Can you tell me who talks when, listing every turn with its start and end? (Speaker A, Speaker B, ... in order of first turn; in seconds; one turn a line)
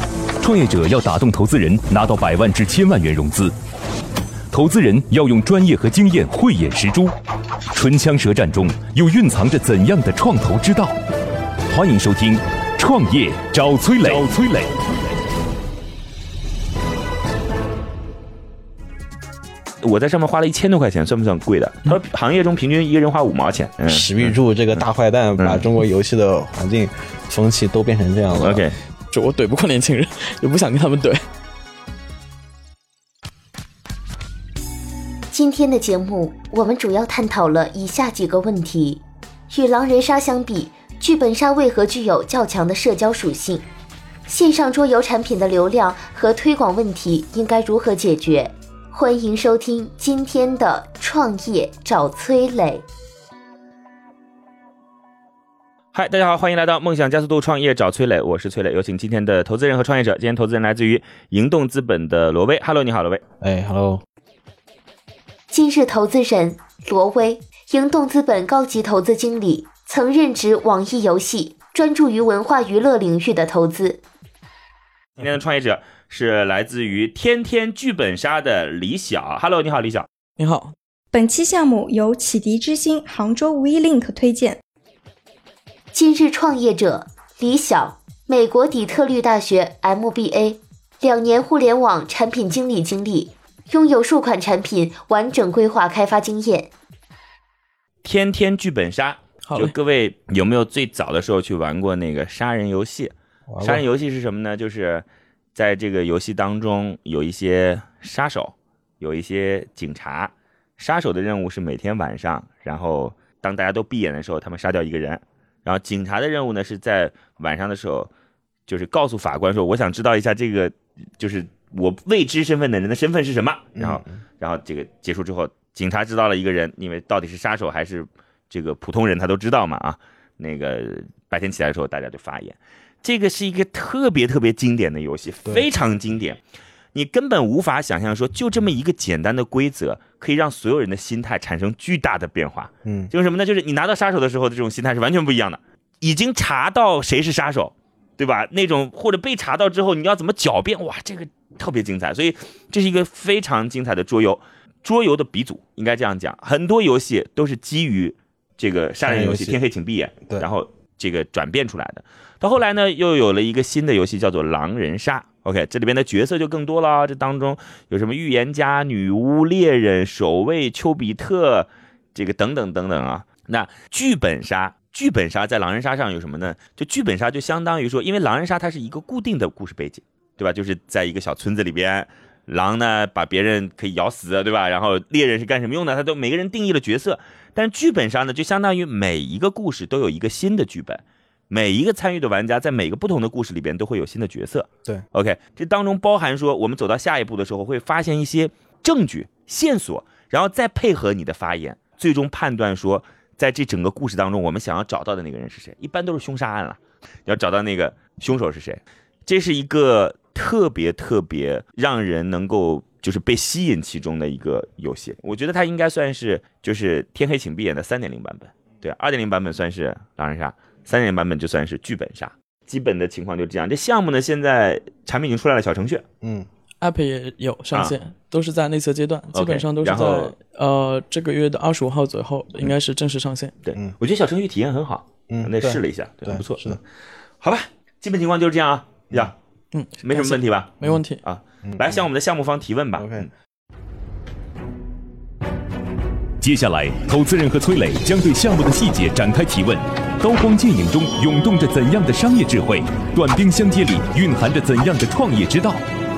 Speaker A: 0.4-3.5
Speaker A: 4.5-7.1
Speaker A: 7.7-10.9
Speaker A: 11.7-14.7
Speaker B: 19.8-24.3
Speaker C: 23.9-28.6
Speaker B: 25.4-25.6
Speaker B: 28.4-28.8
Speaker D: 29.1-31.2
Speaker E: 35.3-43.7
Speaker E: 44.3-52.8
Speaker B: 55.9-63.2
Speaker C: 63.4-64.0
Speaker E: 65.5-74.0
Speaker B: 75.2-80.1
Speaker D: 80.4-80.7
Speaker F: 81.1-84.6
Speaker E: 85.9-96.7
Speaker B: 98.0-118.1
Speaker D: 99.5-99.7
Speaker C: 103.5-103.8
Speaker B: 118.7-136.4
Speaker C: 123.8-124.2
Speaker B: 136.9-226.0
Speaker C: 142.8-143.1
Speaker C: 159.0-159.6
Speaker C: 226.2-226.5
Speaker D: 226.8-233.5
Speaker B: 229.3-230.3
Speaker B: 233.7-236.8
Speaker C: 235.3-236.8
Speaker B: 237.4-239.3
Speaker D: 239.7-241.2
Speaker B: 240.0-243.3
Speaker C: 241.6-242.0
Speaker C: 243.0-243.3
Speaker A: 246.4-255.8